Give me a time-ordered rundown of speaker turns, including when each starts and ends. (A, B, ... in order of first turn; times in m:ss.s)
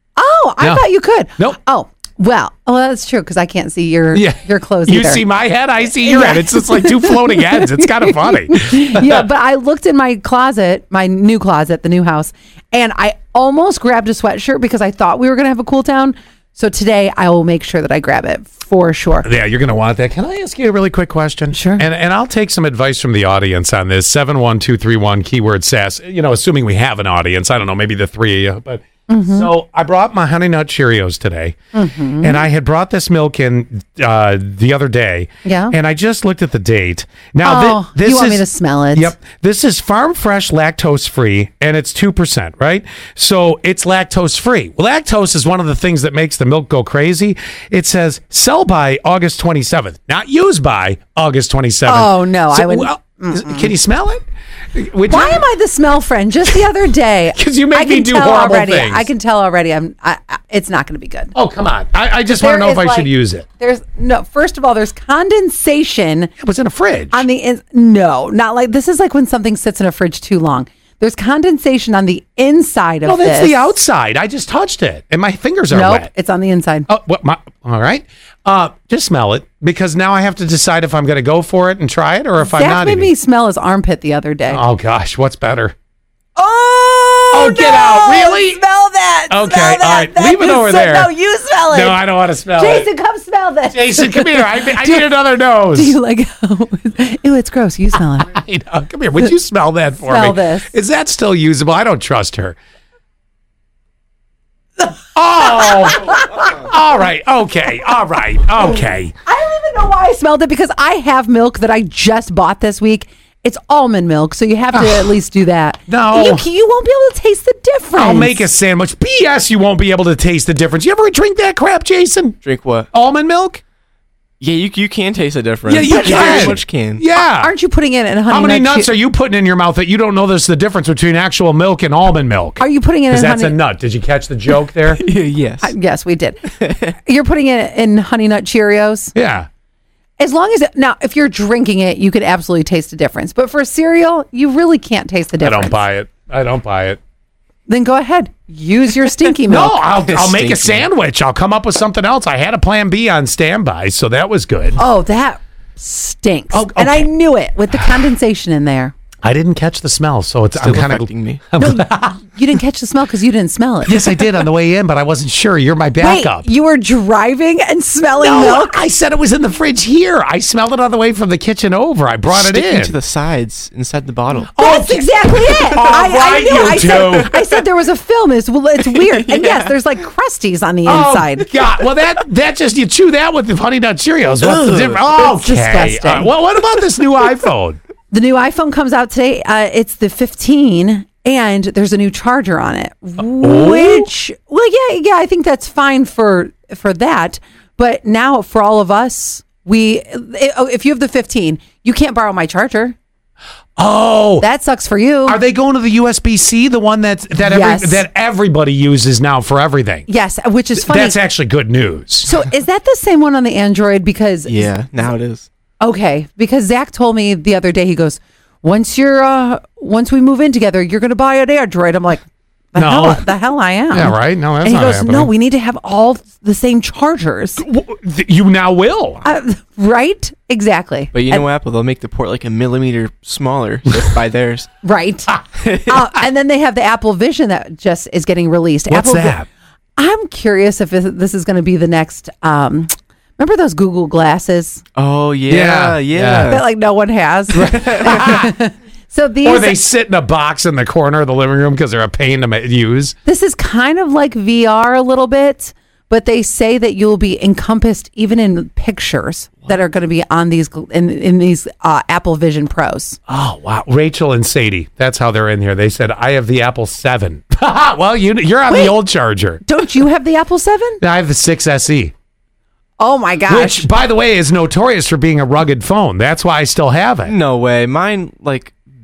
0:00.2-0:05.2 A
0:04.1-0:09.2 B
0:05.8-0:19.3 A
0:19.2-0:31.6 B
0:21.5-0:21.8 A
0:29.1-0:29.5 A
0:31.7-0:32.4 A
0:32.2-0:54.2 B
0:35.4-0:35.8 A
0:37.4-0:39.2 A
0:51.9-0:53.7 A
0:54.7-0:55.4 B
0:55.1-1:01.3 A
0:57.3-0:59.1 B
1:01.3-1:03.4 B
1:02.3-1:06.3 A
1:06.4-1:07.2 B
1:07.1-1:13.8 A
1:13.0-1:16.1 B
1:15.7-1:16.9 A
1:16.9-1:23.1 B
1:22.4-1:24.6 A
1:24.5-1:25.7 B
1:26.4-1:32.0 A
1:27.3-1:28.6 B
1:29.3-1:31.1 B
1:31.7-1:32.9 B
1:32.6-1:35.1 A
1:33.7-1:35.9 B
1:35.7-1:38.3 A
1:38.2-1:42.6 B
1:40.0-1:40.7 A
1:45.2-1:49.1 B
1:45.4-1:46.5 A
1:48.6-1:58.4 A
1:54.7-1:55.2 B
1:55.9-1:56.5 B
1:58.0-2:02.4 B
2:02.4-2:02.9 C
2:02.9-2:03.6 B
2:04.4-2:07.0 C
2:05.7-2:07.5 B
2:05.8-2:06.6 A
2:07.2-2:08.9 A
2:08.3-2:15.0 B
2:12.6-2:13.6 A
2:14.9-2:15.7 C
2:15.6-2:19.1 A
2:16.6-2:16.9 C
2:19.2-2:19.5 B
2:20.2-2:25.8 A
2:25.4-2:27.0 B
2:27.7-2:29.8 A
2:29.5-2:34.8 B
2:30.1-2:30.9 C
2:34.8-2:38.9 A
2:36.5-2:37.1 B
2:39.2-2:42.2 B
2:40.6-2:41.4 C
2:41.6-2:44.3 A
2:43.8-2:46.5 B
2:46.0-2:48.8 A
2:48.2-2:53.0 B
2:52.3-2:54.5 C
2:54.5-2:57.3 B
2:54.6-3:01.6 A
2:56.9-2:57.5 C
2:58.9-2:59.7 C
3:00.8-3:07.8 B
3:04.4-3:05.0 C
3:05.1-3:06.3 A
3:08.1-3:22.9 A
3:13.4-3:14.1 B
3:23.8-3:24.4 B
3:24.4-3:25.4 A
3:25.2-3:30.1 B
3:27.4-3:28.0 A
3:30.1-3:31.2 A
3:30.8-3:32.4 B
3:32.2-3:34.7 A
3:34.4-3:35.5 C
3:35.8-3:47.6 A
3:42.8-3:43.2 B
3:43.9-3:45.3 B
3:47.6-3:49.2 B
3:49.2-3:51.4 A
3:51.1-3:54.7 C
3:54.8-3:59.4 A
3:55.6-3:55.9 C
3:58.9-3:59.5 B
4:00.0-4:04.8 A
4:05.0-4:06.7 C
4:05.5-4:06.5 B
4:06.5-4:09.8 A
4:07.5-4:08.5 B
4:07.7-4:08.2 C
4:09.4-4:13.1 B
4:13.2-4:23.2 A
4:23.3-4:29.6 B
4:28.7-4:29.0 A
4:29.6-4:31.0 A
4:31.0-4:32.1 B
4:33.0-4:33.9 A
4:33.5-4:37.3 B
4:37.2-4:38.8 C